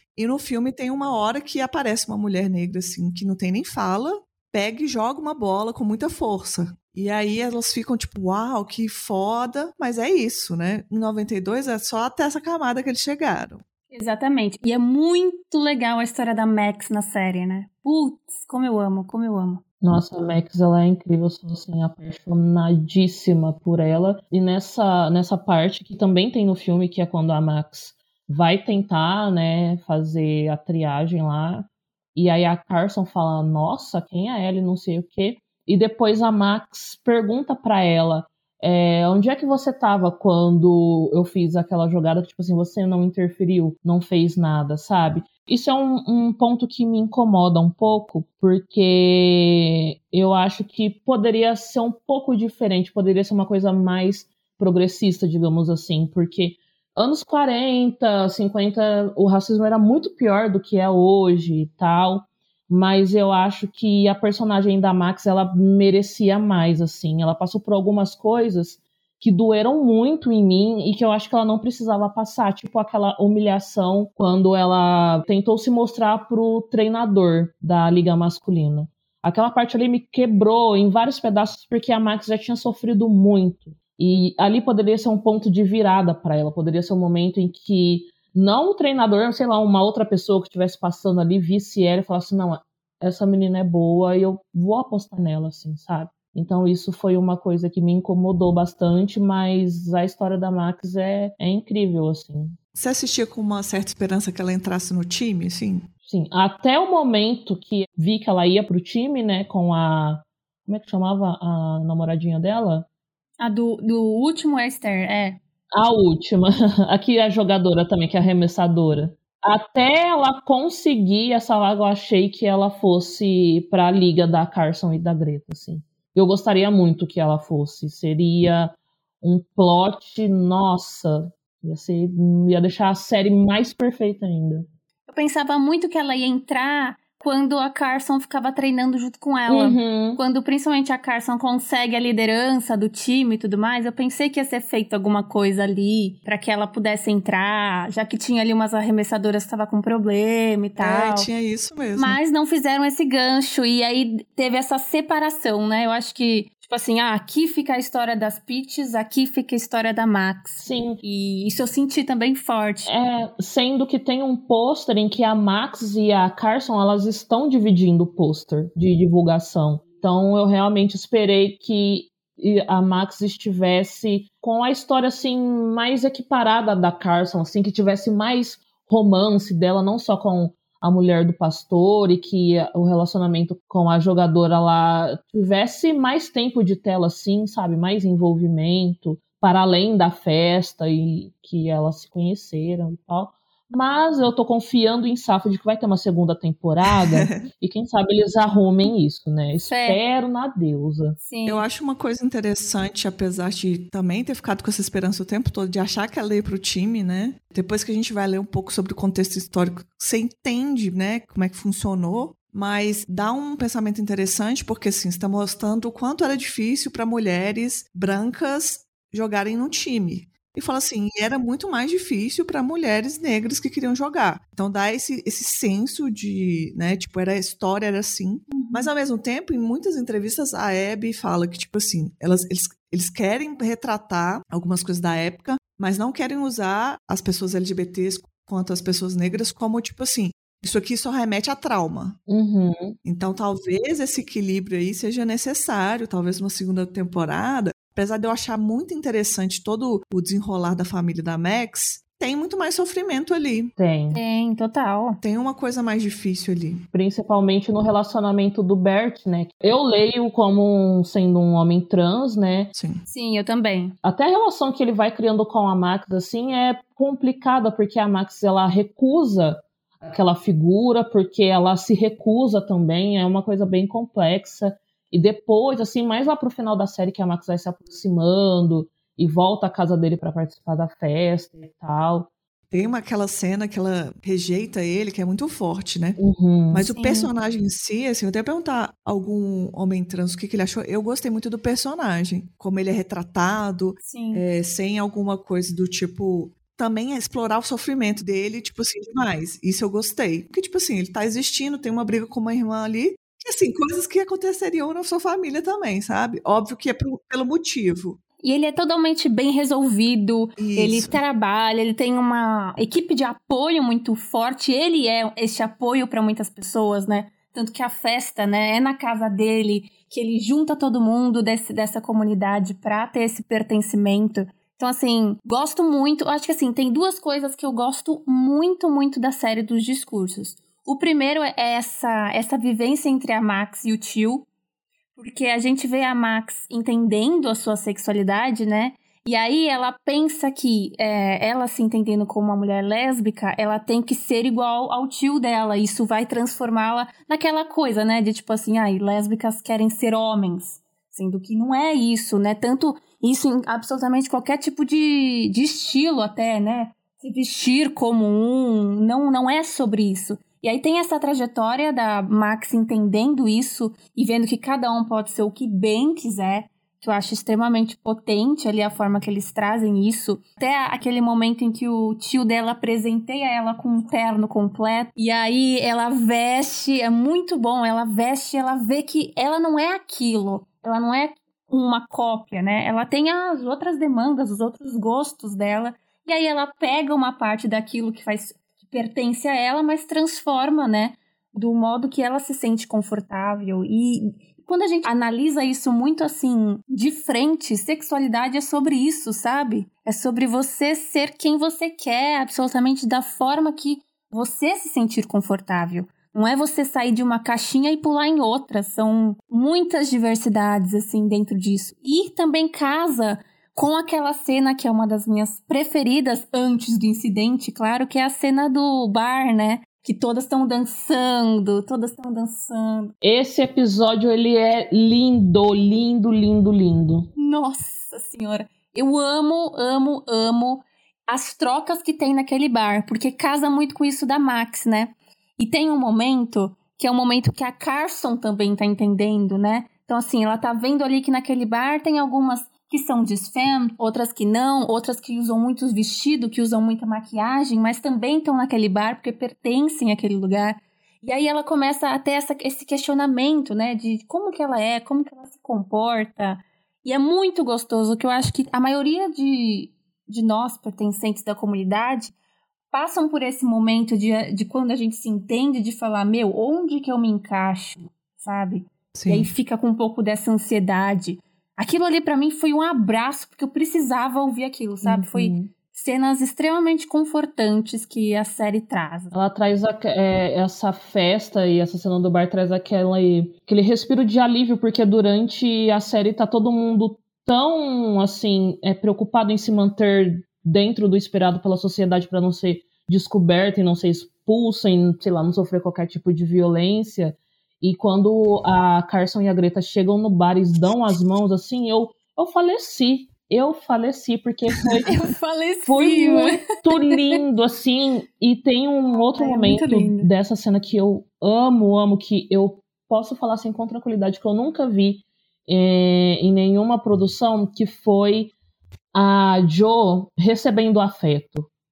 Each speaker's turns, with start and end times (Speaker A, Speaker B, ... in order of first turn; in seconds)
Speaker A: 0.2-13.6, 102.8-105.9, 150.8-152.2, 196.9-197.5, 201.5-242.2, 243.1-253.7, 255.2-256.8, 262.8-263.1, 282.7-286.2, 286.7-308.2, 310.6-311.2, 469.1-469.5
Speaker B: 13.9-19.6, 113.4-115.4, 135.1-151.3, 152.0-162.9, 199.7-200.0, 201.2-201.7, 228.5-228.9, 254.1-255.2, 263.1-264.0, 286.9-287.3, 294.0-294.4, 308.4-334.5, 335.2-423.1, 427.4-462.3, 462.9-479.3, 505.1-507.4, 509.2-510.3
Speaker C: 19.8-102.6, 106.1-112.9, 115.8-134.7, 139.5-140.2, 160.6-161.0, 162.9-201.2, 242.3-243.0, 253.8-254.2, 256.9-262.7, 264.0-282.3, 286.2-286.9, 423.2-427.3, 475.0-475.7, 479.3-505.2, 505.9-518.5, 519.1-521.7